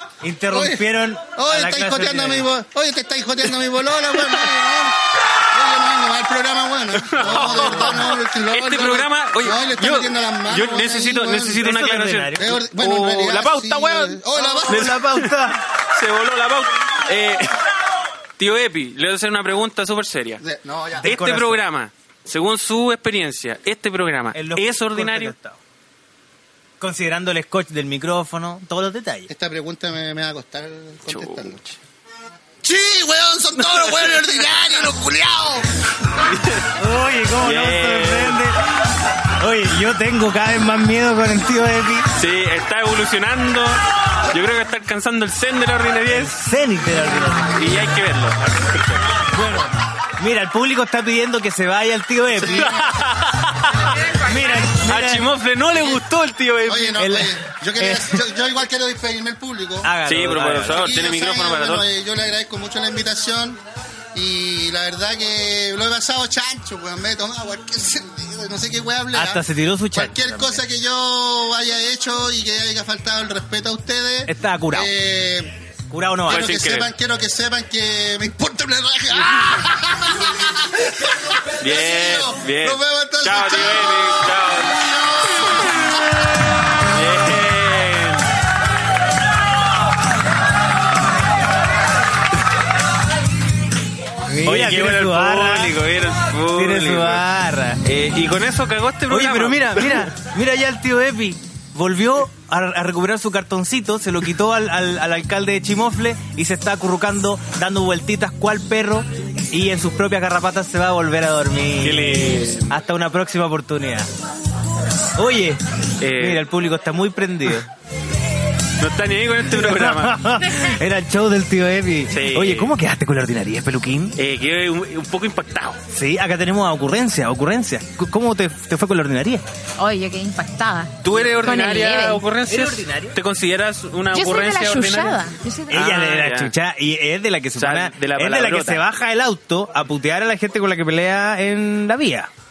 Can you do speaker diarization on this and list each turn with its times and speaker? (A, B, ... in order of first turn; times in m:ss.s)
0:00.2-0:02.5 A
0:00.5-0:05.0 B
0:05.5-0:11.6 B
0:07.0-0:17.6 C
0:07.2-0:08.0 A
0:11.4-0:12.6 A
0:12.4-0:15.0 B
0:14.3-0:15.6 A
0:18.4-0:20.4 C
0:20.4-0:21.2 B
0:21.0-0:21.6 A
0:21.0-0:25.4 C
0:24.3-0:25.6 A
0:26.8-0:29.3 A
0:29.3-0:31.6 B
0:31.1-0:31.8 C
0:32.6-0:35.7 B
0:36.2-0:36.7 C
0:36.8-0:38.6 A
0:37.4-0:38.4 C
0:39.4-0:42.1 A
0:42.2-0:46.3 C
0:46.1-0:47.7 A
0:47.5-0:49.1 C
0:49.3-0:52.7 A
0:52.4-0:53.2 B
0:52.4-0:54.2 C
0:53.7-0:53.9 B
0:54.1-0:55.3 A
0:54.7-0:57.0 C
0:55.8-0:56.0 B
0:56.6-0:59.9 B
0:57.0-0:58.2 A
0:59.8-1:01.0 A
1:00.0-1:01.9 C
1:00.6-1:03.6 B
1:04.1-1:15.6 B
1:09.1-1:10.6 A
1:14.3-1:14.9 A
1:15.9-1:16.6 A
1:16.2-1:26.0 B
1:16.3-1:16.9 C
1:21.6-1:24.8 C
1:26.9-1:28.3 C
1:34.3-1:35.8 A
1:34.4-1:37.2 C
1:36.4-1:37.8 A
1:37.8-1:40.1 C
1:39.1-1:54.1 A
1:51.8-1:52.8 C
1:55.2-1:57.7 A
1:56.0-1:56.5 C
1:58.8-2:00.2 C
1:59.4-2:04.2 A
2:02.1-2:02.7 C
2:04.2-2:05.8 C
2:05.9-2:09.4 A
2:09.8-2:12.2 D
2:11.0-2:16.5 C
2:12.5-2:13.2 A
2:14.1-2:15.9 D
2:15.7-2:22.3 A
2:17.6-2:18.8 C